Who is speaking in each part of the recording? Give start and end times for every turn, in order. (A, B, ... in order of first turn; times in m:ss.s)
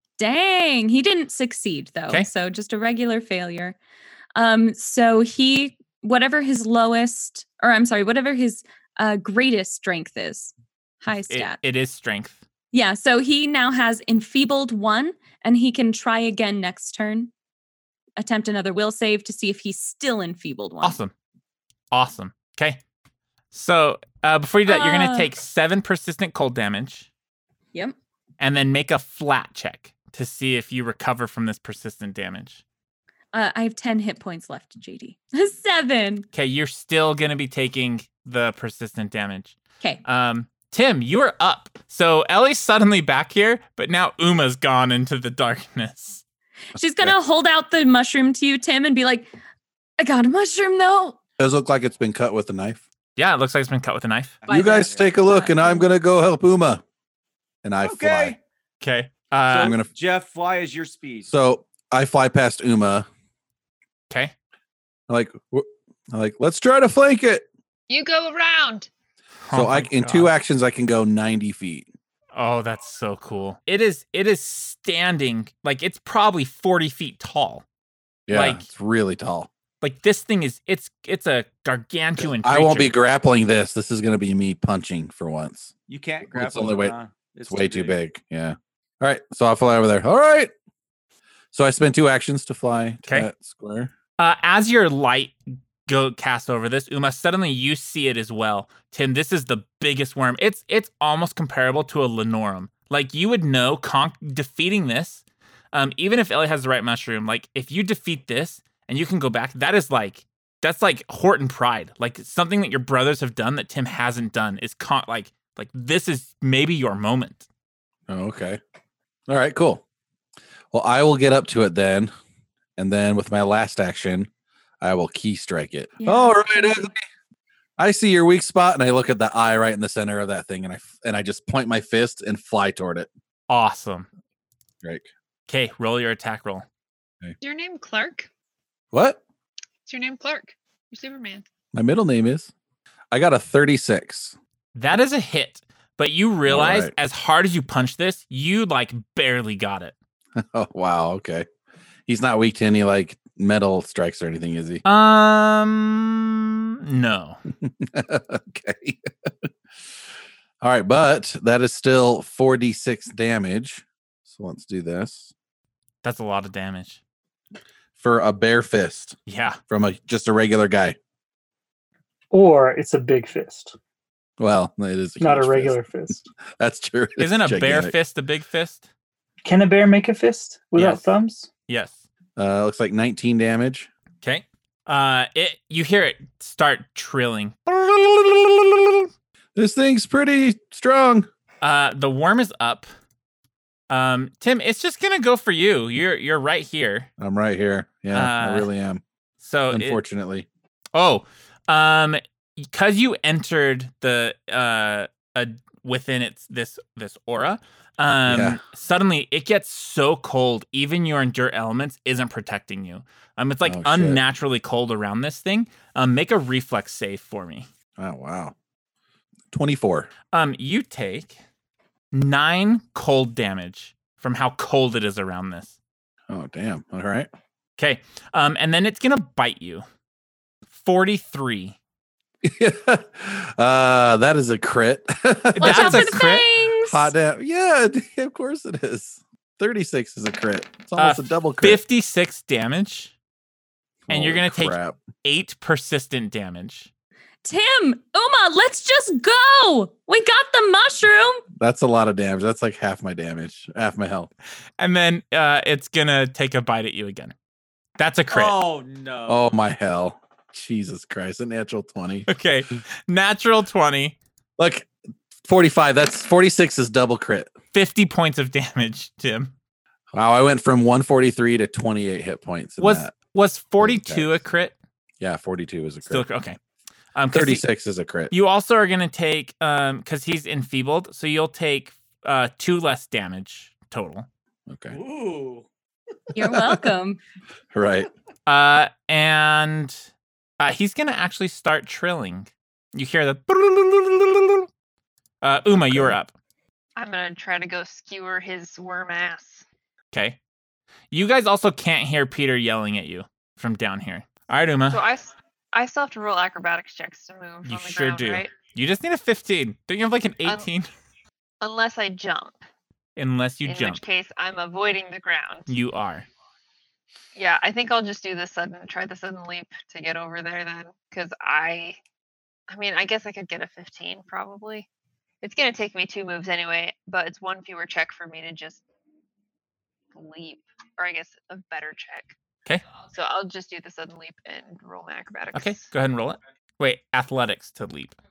0:00.2-0:03.8 A
0:04.3-0:11.6 A
0:11.3-0:12.4 B
0:12.7-0:17.3 A
0:18.2-0:21.0 A
0:20.8-0:21.1 B
0:21.9-0:22.8 B
0:23.5-0:27.1 B
0:24.6-0:25.3 A
0:28.4-0:32.6 B
0:33.3-0:36.2 A
0:36.3-0:46.2 B
0:46.7-0:49.3 A
0:50.0-0:51.2 A
0:51.4-0:52.8 C
0:53.2-0:54.4 B
0:54.4-0:55.1 D
0:54.5-0:55.9 A
0:54.5-0:56.8 C
0:57.6-0:58.4 C
0:57.8-0:58.4 D
0:58.8-0:59.7 B
0:59.5-1:01.3 D
0:59.5-0:59.9 C
1:01.3-1:03.1 C
1:05.1-1:07.4 C
1:07.9-1:08.9 E
1:09.4-1:10.3 B
1:09.5-1:11.9 C
1:12.3-1:17.6 B
1:18.3-1:19.5 C
1:18.3-1:18.7 B
1:19.8-1:22.9 B
1:22.2-1:25.7 C
1:25.9-1:28.0 D
1:26.3-1:30.5 C
1:31.5-1:33.9 C
1:34.2-1:57.5 B
1:58.1-1:58.6 C
1:59.3-1:59.8 C
2:00.7-2:02.1 C
2:02.8-2:04.3 C
2:04.8-2:07.0 C
2:06.0-2:06.8 A
2:07.8-2:13.1 C
2:13.5-2:14.1 B
2:15.5-2:16.6 B
2:17.4-2:18.3 E
2:18.9-2:19.2 C
2:19.8-2:21.4 E
2:21.7-2:22.5 C
2:23.1-2:24.4 C
2:24.7-2:29.9 B
2:26.5-2:26.9 C
2:30.4-2:31.5 C
2:32.1-2:34.8 C
2:34.8-2:37.4 B
2:37.6-2:39.5 C
2:40.6-2:45.3 C
2:46.0-2:47.0 B
2:48.0-2:49.2 C
2:49.3-2:49.6 B
2:49.7-2:51.0 C
2:52.3-2:53.8 F
2:54.4-2:57.9 C
2:55.2-2:56.2 F
2:57.2-2:58.9 B
2:59.4-3:01.5 F
3:00.7-3:01.0 B
3:01.7-3:02.0 B
3:02.4-3:03.9 C
3:04.2-3:09.1 B
3:09.6-3:11.3 C
3:11.6-3:12.9 B
3:13.9-3:17.1 B
3:17.2-3:19.0 C
3:18.1-3:18.7 B
3:19.4-3:20.0 B
3:19.7-3:20.4 C
3:20.9-3:37.7 B
3:28.2-3:28.6 C
3:33.6-3:34.2 C
3:38.0-3:38.5 C
3:39.5-3:40.1 C
3:40.3-3:41.4 B
3:42.1-3:45.8 B
3:46.3-3:47.3 C
3:47.8-3:49.8 B
3:50.7-3:51.8 B
3:52.4-3:56.2 C
3:55.5-3:56.4 B
3:55.6-3:57.1 A
3:56.8-4:01.8 C
4:01.0-4:03.1 B
4:04.1-4:05.0 C
4:04.1-4:06.9 B
4:07.4-4:11.4 A
4:11.6-4:14.3 C
4:14.8-4:17.3 B
4:18.0-4:18.6 B
4:18.3-4:19.5 D
4:19.3-4:22.3 C
4:22.3-4:24.2 B
4:24.6-4:24.9 C
4:25.4-4:27.5 C
4:27.7-4:29.5 B
4:30.1-4:33.1 C
4:32.8-4:34.7 B
4:33.8-4:34.4 C
4:35.2-4:36.2 C
4:36.0-4:36.6 B
4:37.1-4:37.6 B
4:37.3-4:38.3 C
4:38.3-4:44.3 B
4:44.7-4:45.0 C
4:44.9-4:45.7 D
4:46.3-4:47.2 A
4:47.7-4:48.1 C
4:48.5-4:50.0 B
4:50.6-4:54.7 B
4:55.4-4:56.3 B
4:55.8-4:56.2 C
4:57.0-4:59.6 E
5:00.1-5:00.4 B
5:01.1-5:05.0 B
5:04.9-5:08.5 E
5:07.6-5:10.9 B
5:11.6-5:12.6 E
5:13.2-5:14.0 B
5:13.6-5:15.7 E
5:15.7-5:16.2 B
5:17.4-5:22.0 E
5:22.7-5:24.9 E
5:25.4-5:28.8 E
5:30.1-5:32.4 E
5:33.1-5:35.8 E
5:35.5-5:38.2 B